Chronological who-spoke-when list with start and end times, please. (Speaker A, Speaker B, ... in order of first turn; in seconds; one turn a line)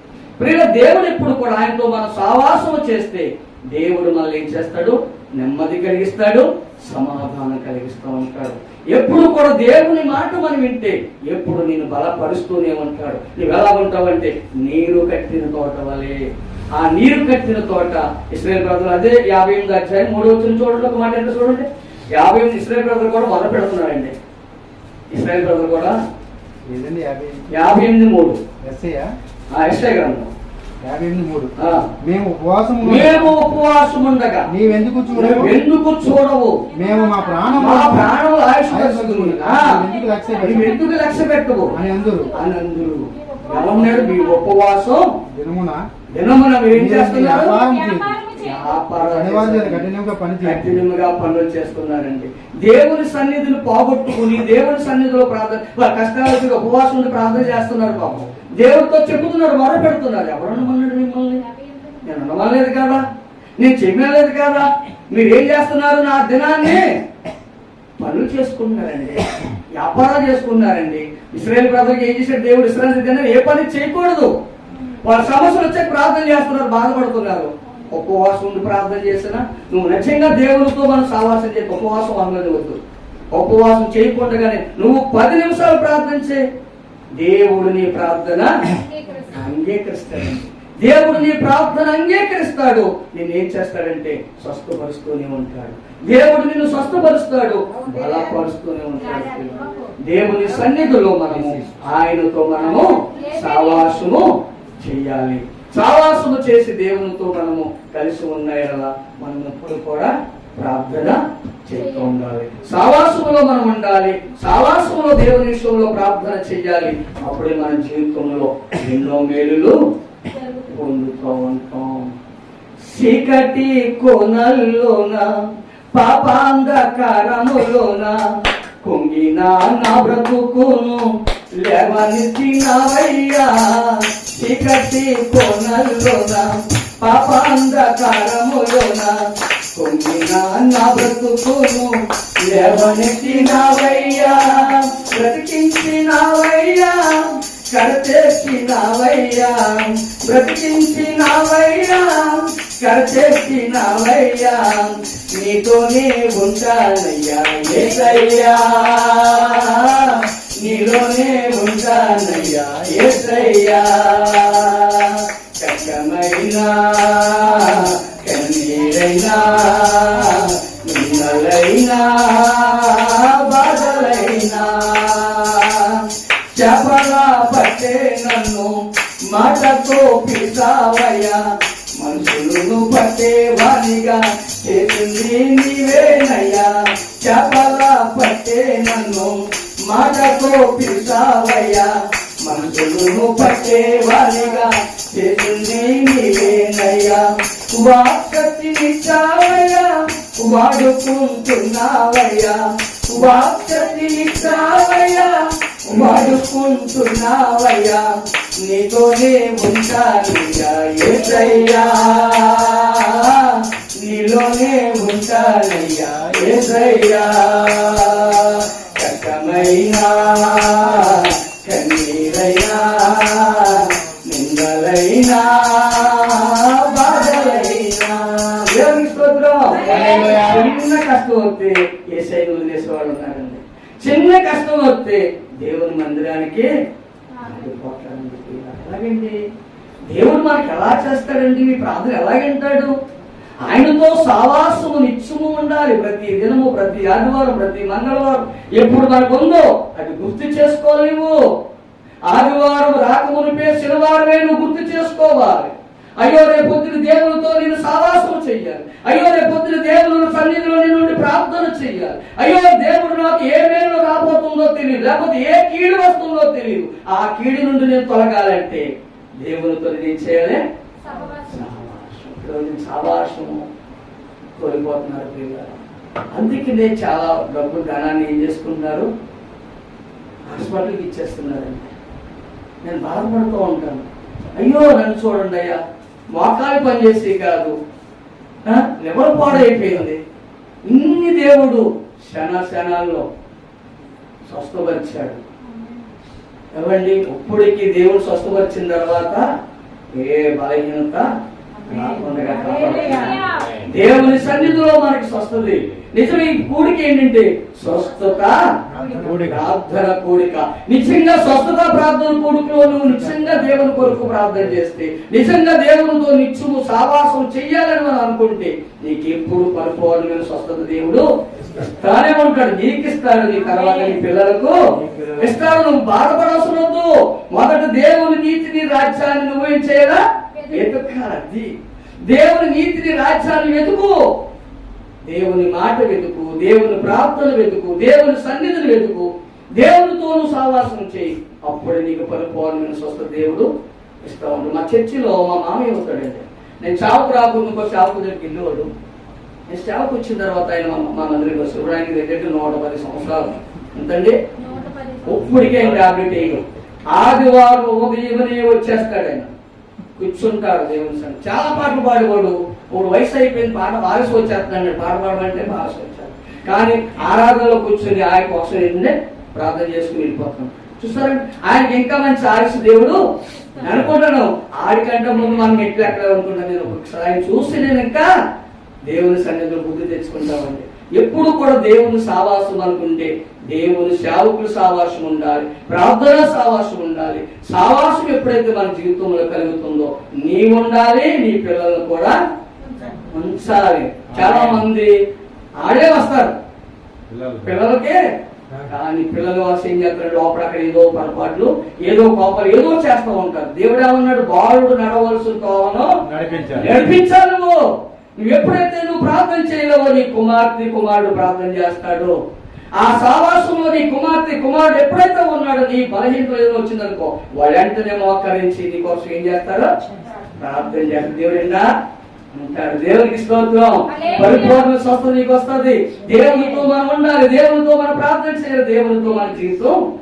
Speaker A: 0.4-16.2
Speaker A: 16.7-24.1
Speaker A: 25.1-26.0
Speaker B: 26.7-27.4
Speaker A: 27.5-28.4
Speaker B: 28.6-29.1
Speaker A: 29.5-30.3
Speaker B: 30.8-33.4
Speaker A: 31.6-31.9
Speaker A: 32.8-34.5
Speaker B: 34.5-35.5
Speaker C: 34.6-35.5
Speaker A: 35.1-36.6
Speaker C: 36.6-37.8
Speaker B: 36.7-40.8
Speaker A: 37.5-39.8
Speaker C: 39.6-44.5
Speaker A: 40.4-41.8
Speaker B: 41.7-42.4
Speaker A: 42.3-45.1
Speaker B: 45.3-45.9
Speaker A: 46.1-47.6
Speaker B: 46.7-48.2
Speaker C: 47.3-48.8
Speaker A: 48.4-49.9
Speaker B: 48.9-50.8
Speaker A: 50.4-61.4
Speaker C: 61.3-62.1
Speaker A: 62.0-63.0
Speaker A: 63.6-67.0
Speaker A: 68.0-74.3
Speaker A: 75.0-82.8
Speaker A: 83.3-86.4
Speaker A: 87.2-88.8
Speaker C: 88.7-89.5
Speaker A: 89.3-119.8
Speaker C: 99.0-100.0
Speaker C: 102.7-104.0
Speaker C: 111.8-112.1
Speaker C: 120.2-120.7
Speaker A: 120.7-122.1
Speaker A: 122.8-125.4
Speaker A: 125.9-128.3
Speaker A: 128.8-139.2
Speaker A: 139.7-208.1
Speaker C: 170.8-171.3
Speaker A: 208.6-236.7
Speaker C: 229.7-230.8
Speaker B: 229.8-230.7
Speaker A: 237.4-239.4
Speaker A: 240.1-242.9
Speaker A: 243.6-251.4
Speaker A: 252.3-268.9
Speaker A: 269.4-270.6
Speaker C: 271.0-271.6
Speaker A: 271.4-273.6
Speaker A: 274.6-275.8
Speaker A: 276.3-279.1
Speaker A: 280.5-281.9
Speaker A: 282.8-285.8
Speaker A: 286.3-287.8
Speaker A: 288.6-290.2
Speaker A: 290.9-293.2
Speaker A: 294.5-295.4
Speaker C: 295.6-296.1
Speaker A: 296.7-299.4
Speaker A: 300.1-301.3
Speaker C: 301.8-303.8
Speaker A: 301.9-308.7
Speaker B: 308.9-309.6
Speaker C: 308.9-309.2
Speaker A: 309.2-324.8
Speaker C: 323.7-324.2
Speaker B: 325.0-325.6
Speaker A: 325.4-331.7
Speaker C: 330.5-331.0
Speaker A: 332.2-334.2
Speaker A: 335.2-343.7
Speaker A: 344.2-348.9
Speaker A: 349.7-354.4
Speaker C: 354.6-355.6
Speaker A: 355.2-359.5
Speaker A: 360.2-373.2
Speaker A: 373.7-378.3
Speaker A: 379.1-392.4
Speaker C: 392.9-393.2
Speaker A: 393.2-395.1
Speaker B: 394.3-394.9
Speaker A: 395.8-396.6
Speaker B: 397.3-397.8
Speaker A: 397.6-398.2
Speaker A: 398.9-406.1
Speaker B: 406.2-407.0
Speaker A: 406.7-407.8
Speaker A: 408.4-412.4
Speaker A: 412.9-419.9
Speaker C: 420.1-420.4
Speaker A: 420.6-421.9
Speaker A: 422.5-430.0
Speaker C: 424.1-424.9
Speaker C: 426.4-426.7